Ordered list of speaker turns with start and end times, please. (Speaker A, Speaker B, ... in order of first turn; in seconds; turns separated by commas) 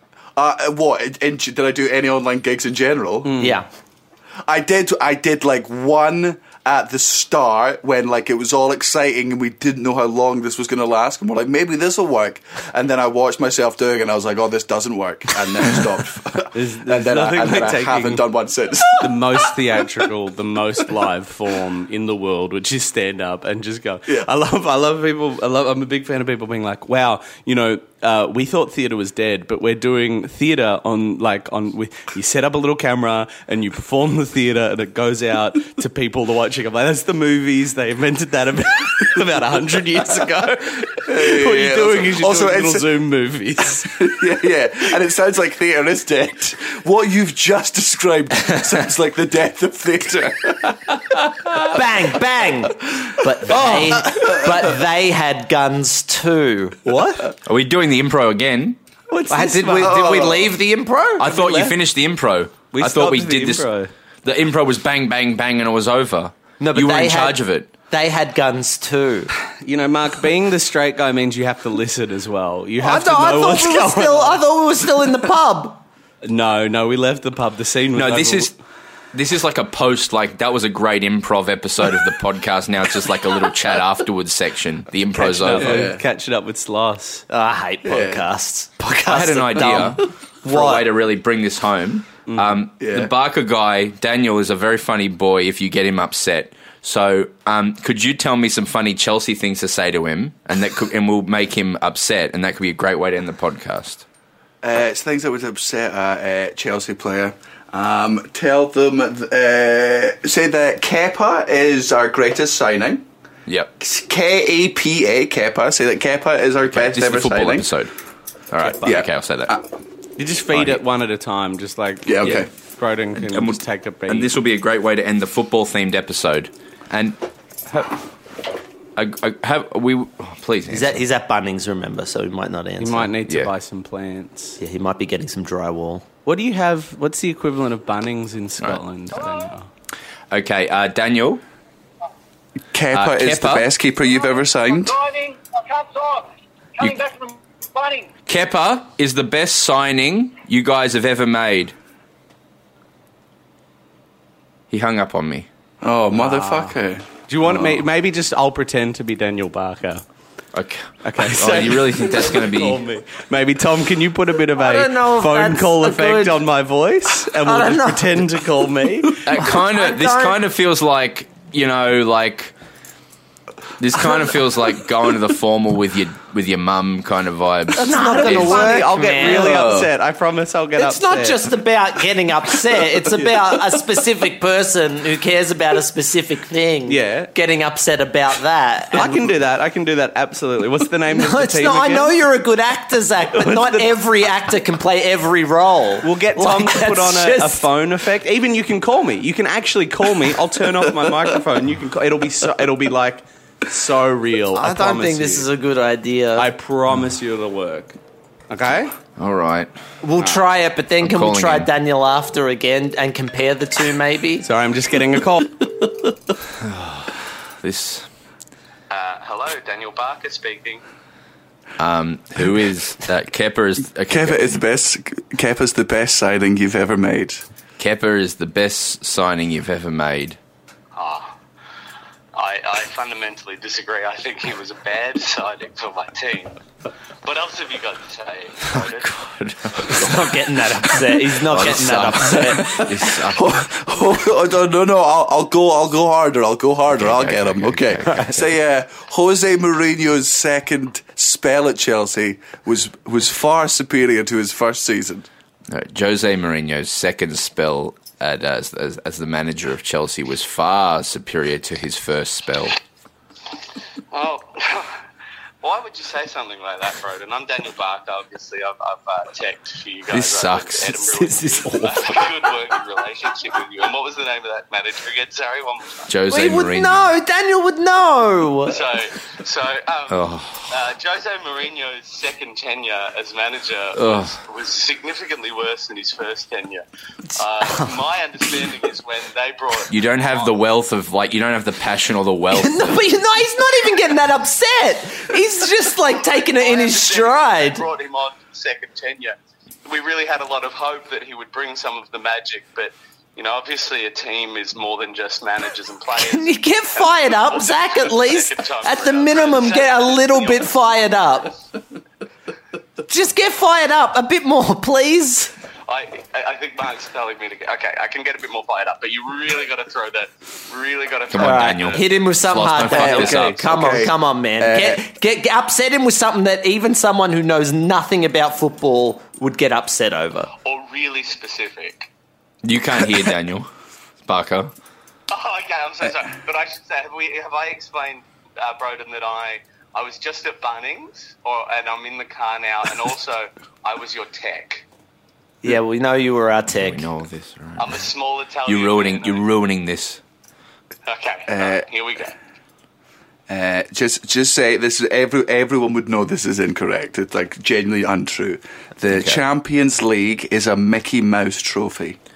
Speaker A: 0.3-3.5, Speaker B: 3.2-3.6, Speaker C: 3.4-3.7, Speaker A: 4.5-19.8, Speaker B: 16.5-18.2, Speaker B: 19.0-44.0, Speaker A: 41.0-43.0, Speaker A: 43.9-51.0, Speaker C: 51.7-56.8, Speaker B: 53.5-54.5, Speaker B: 56.8-57.3, Speaker D: 57.4-58.8, Speaker B: 59.1-60.2, Speaker C: 59.3-61.3, Speaker A: 59.8-60.5, Speaker D: 61.2-63.7, Speaker B: 61.2-61.8, Speaker B: 62.7-63.9, Speaker D: 64.2-67.7, Speaker C: 66.6-69.3, Speaker B: 69.6-74.4, Speaker C: 72.8-75.8, Speaker B: 76.2-78.5, Speaker D: 77.9-78.5, Speaker D: 79.1-85.9, Speaker B: 85.2-87.2, Speaker A: 85.5-86.0, Speaker C: 87.3-90.8, Speaker A: 87.8-88.2, Speaker D: 89.1-104.0, Speaker B: 92.3-92.6, Speaker A: 92.8-93.1, Speaker A: 104.6-113.0, Speaker D: 113.5-113.7, Speaker A: 113.8-117.7, Speaker D: 116.6-117.9, Speaker D: 118.5-119.5, Speaker A: 118.6-119.7, Speaker B: 120.2-124.3, Speaker D: 120.5-120.8, Speaker A: 122.0-122.5, Speaker D: 123.2-127.2, Speaker D: 128.9-131.0, Speaker C: 130.7-133.1, Speaker B: 132.8-134.6, Speaker C: 134.6-136.0, Speaker B: 136.2-139.7, Speaker D: 140.3-141.4, Speaker A: 142.7-145.0, Speaker D: 142.9-143.7, Speaker E: 144.8-146.3, Speaker E: 146.8-148.1, Speaker D: 148.3-151.7, Speaker D: 154.7-155.5, Speaker A: 155.8-157.1, Speaker B: 156.1-156.8, Speaker B: 157.3-160.0, Speaker D: 160.5-162.8, Speaker B: 161.0-169.2, Speaker C: 164.6-166.4, Speaker C: 167.4-168.2, Speaker D: 169.2-172.5, Speaker C: 169.3-170.4, Speaker D: 173.8-178.9, Speaker C: 177.8-179.7, Speaker B: 177.8-181.4, Speaker A: 179.3-179.9, Speaker C: 180.8-189.2, Speaker B: 186.9-187.3, Speaker B: 188.9-192.1, Speaker C: 191.1-197.7, Speaker B: 193.3-193.9, Speaker B: 196.0-205.5, Speaker C: 204.5-206.5, Speaker B: 206.3-207.9, Speaker B: 208.5-208.9, Speaker D: 209.2-209.7, Speaker C: 210.0-214.5, Speaker D: 211.0-211.7, Speaker B: 214.4-215.7, Speaker D: 216.6-218.1, Speaker F: 218.9-220.8, Speaker D: 221.8-224.6, Speaker A: 224.1-227.4, Speaker D: 227.8-230.4, Speaker F: 230.9-231.3, Speaker F: 232.3-236.6, Speaker F: 237.2-239.1, Speaker D: 238.7-240.4, Speaker C: 239.9-242.8, Speaker D: 241.4-243.5, Speaker A: 242.8-255.3, Speaker D: 246.9-248.3, Speaker D: 255.7-262.8, Speaker F: 264.1-265.0, Speaker F: 265.6-276.1, Speaker D: 270.1-271.0, Speaker C: 271.0-272.3, Speaker D: 276.1-277.1, Speaker C: 276.3-278.8, Speaker F: 278.6-290.5, Speaker D: 280.1-280.7, Speaker D: 283.9-284.4, Speaker C: 287.6-287.9, Speaker D: 289.9-292.9, Speaker C: 292.5-297.9, Speaker F: 296.2-311.1, Speaker C: 306.1-311.6, Speaker C: 313.1-315.5, Speaker F: 315.9-322.1, Speaker D: 321.3-323.6, Speaker C: 321.4-330.5, Speaker A: 322.9-325.0, Speaker F: 330.6-332.1, Speaker D: 332.6-333.7, Speaker D: 334.3-334.7, Speaker F: 335.3-344.9, Speaker C: 345.6-347.1, Speaker D: 346.7-348.0, Speaker F: 347.8-349.5, Speaker D: 348.7-350.2, Speaker F: 351.1-352.4, Speaker A: 351.5-351.9, Speaker A: 353.5-362.2, Speaker D: 359.1-359.4